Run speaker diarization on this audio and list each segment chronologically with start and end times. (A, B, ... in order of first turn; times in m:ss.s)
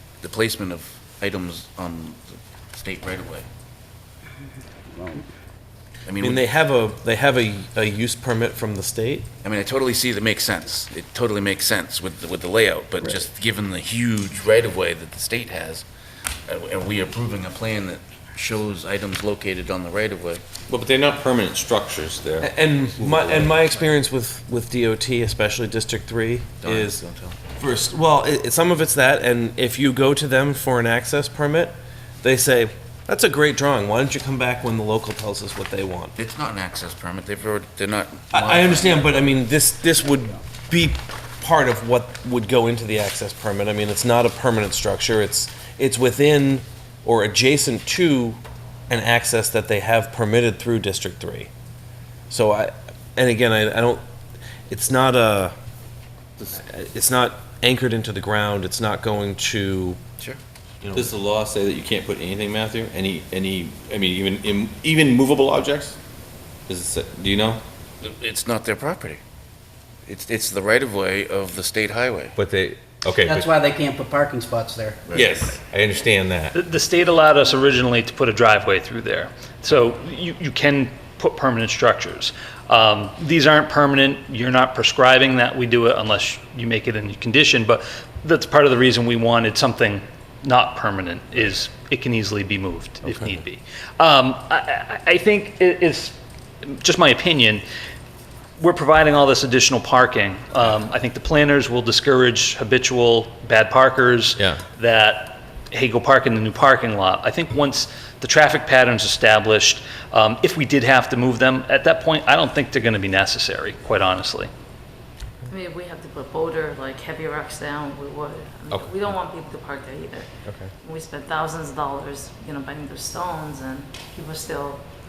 0:00.2-0:03.5 A
0:05.0-0:05.2 B
0:06.0-0:06.4 A
0:06.2-0:09.3 C
0:09.4-0:15.8 A
0:16.5-0:20.4 A
0:20.7-0:23.6 D
0:22.4-0:27.0 C
0:26.6-0:27.4 A
0:27.6-0:36.2 C
0:36.2-0:39.4 A
0:38.3-0:48.4 C
0:48.9-0:51.5 C
0:52.3-0:54.0 C
0:54.7-0:55.6 C
0:56.5-1:00.0 C
1:00.8-1:01.1 C
1:00.9-1:06.0 D
1:06.7-1:07.6 D
1:08.0-1:09.2 A
1:10.1-1:12.3 A
1:12.4-1:13.5 D
1:13.2-1:15.0 B
1:15.1-1:15.4 A
1:15.1-1:16.6 D
1:16.5-1:37.6 E
1:38.6-1:54.5 E
1:44.4-1:44.6 D
1:55.5-2:00.3 F
1:58.7-1:59.0 D
2:00.5-2:00.7 D
2:00.8-2:04.8 F